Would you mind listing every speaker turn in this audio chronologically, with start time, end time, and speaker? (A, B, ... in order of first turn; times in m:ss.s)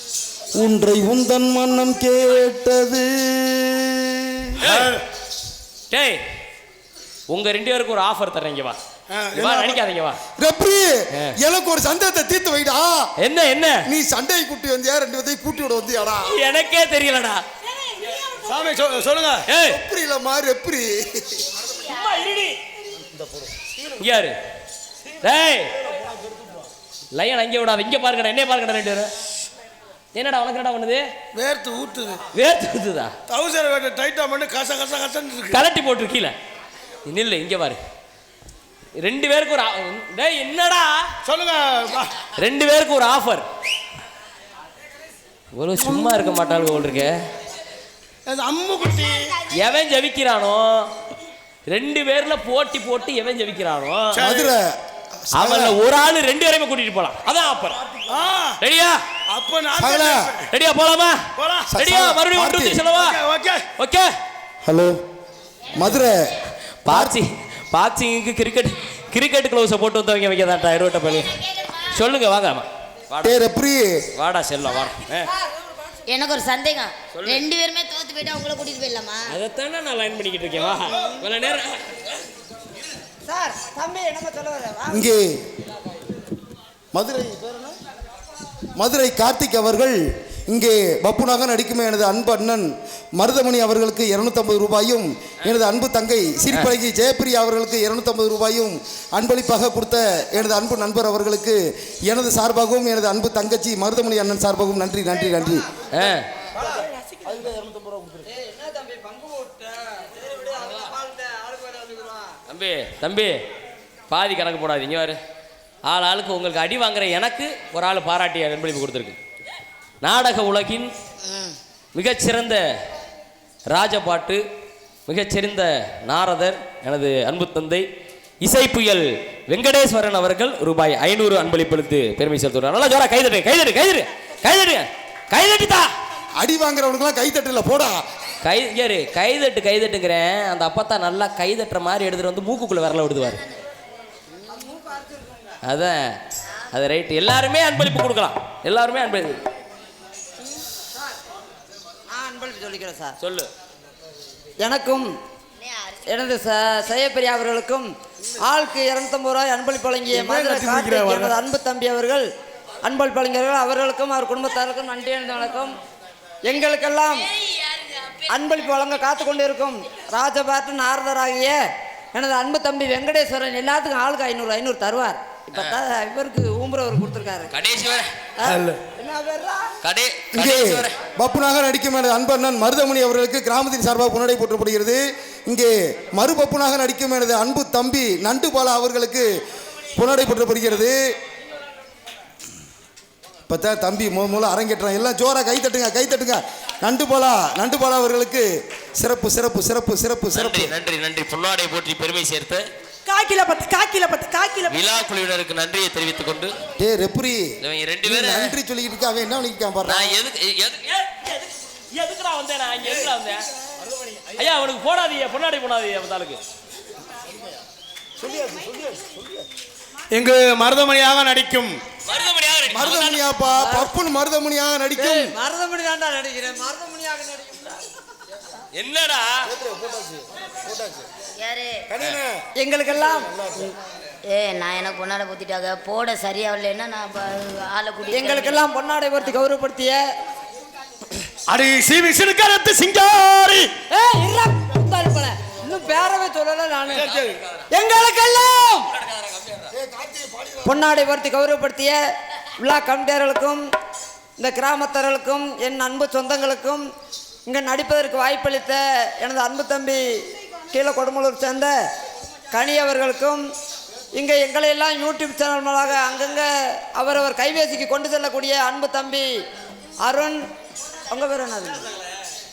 0:00.6-0:04.7 A
0:04.6-0:05.0 B
0:04.6-0:05.0 C
0:05.9-0:06.2 B
0:07.3-0:08.8 B
0:09.1-0:09.8 C
0:09.4-0:10.2 B
0:10.4-0:13.1 A
0:13.2-0:13.8 B
0:13.8-0:16.4 A
0:16.3-0:17.4 B
0:17.6-0:18.7 D
0:18.4-0:19.4 C
0:19.5-0:19.8 B
0:19.6-0:21.4 A
0:21.8-0:22.6 B
0:24.0-0:24.4 B
0:25.2-0:25.7 B
0:27.2-0:29.1 B
0:30.2-0:31.0 B
0:31.4-0:32.2 C
0:32.3-0:33.1 B
0:33.3-0:35.6 C
0:35.5-0:36.3 B
0:37.1-0:37.8 B
0:39.0-0:41.1 B
0:41.3-0:42.2 C
0:42.4-0:43.4 B
0:45.6-0:47.2 B
0:48.3-0:49.4 C
0:49.5-0:50.9 B
0:51.7-0:54.2 B
0:54.1-0:54.5 C
0:54.2-0:55.8 A
0:55.3-0:57.8 B
0:58.1-0:58.6 C
0:58.6-0:59.0 B
0:59.3-1:00.5 C
0:59.8-1:00.2 A
1:00.5-1:01.3 B
1:01.4-1:01.7 C
1:01.7-1:02.8 A
1:01.8-1:03.2 B
1:02.9-1:03.6 C
1:03.8-1:04.1 B
1:04.6-1:05.0 A
1:05.7-1:06.2 A
1:06.8-1:13.4 B
1:06.9-1:07.2 A
1:13.2-1:14.0 A
1:14.2-1:15.3 B
1:16.1-1:19.3 E
1:17.1-1:17.4 B
1:19.3-1:22.0 B
1:23.3-1:25.1 F
1:24.9-1:25.4 A
1:26.9-1:27.8 A
1:28.8-1:45.7 A
1:45.2-1:45.9 F
1:45.9-1:46.3 B
1:46.6-1:46.8 F
1:47.3-1:48.2 A
1:48.3-1:52.4 F
1:52.5-1:53.4 B
1:54.1-1:55.2 B
1:55.9-1:59.2 B
2:00.0-2:00.9 B
2:01.3-2:01.5 E
2:01.9-2:02.6 B
2:03.7-2:04.4 B
2:05.1-2:07.9 B
2:08.4-2:15.9 B
2:16.4-2:18.0 A
2:18.4-2:23.4 B
2:24.5-2:25.6 F
2:25.6-2:26.2 B
2:26.7-2:29.4 B
2:32.1-2:33.2 F
2:33.2-2:33.5 B
2:34.6-2:35.1 F
2:35.6-2:36.0 E
2:36.1-2:42.2 F
2:40.1-2:41.4 C
2:42.8-2:45.8 F
2:46.5-2:47.3 F
2:48.3-2:51.6 F
2:52.1-2:57.5 F
2:57.5-2:58.1 B
2:58.4-2:59.7 F
2:58.4-2:58.8 C
2:59.8-3:01.0 B
3:00.3-3:09.4 A
3:10.0-3:11.0 A
3:13.5-3:20.7 A
3:20.3-3:22.6 B
3:23.1-3:24.8 D
3:24.7-3:26.6 B
3:26.8-3:30.2 A
3:27.6-3:28.6 B
3:29.8-3:33.5 B
3:34.4-3:36.4 B
3:38.2-3:39.4 A
3:40.1-3:41.8 C
3:42.1-3:43.2 B
3:42.7-3:45.3 A
3:43.6-3:43.9 F
3:45.0-3:48.0 F
3:48.8-3:49.5 B
3:49.5-3:51.1 A
3:51.4-3:51.8 E
3:51.9-3:52.4 A
3:52.6-3:53.3 F
3:53.3-3:53.6 A
3:54.3-3:58.6 E
3:58.1-4:00.0 F
4:01.5-4:03.7 C
4:03.9-4:07.1 F
4:06.9-4:07.4 C
4:06.9-4:07.6 B
4:07.7-4:08.9 F
4:08.9-4:09.7 B
4:09.7-4:10.8 A
4:10.6-4:12.0 F
4:12.6-4:13.6 F
4:14.4-4:16.9 F
4:17.5-4:20.0 F
4:20.7-4:21.7 F
4:22.5-4:23.4 F
4:24.1-4:29.3 F
4:30.0-4:30.4 F
4:31.1-4:31.8 F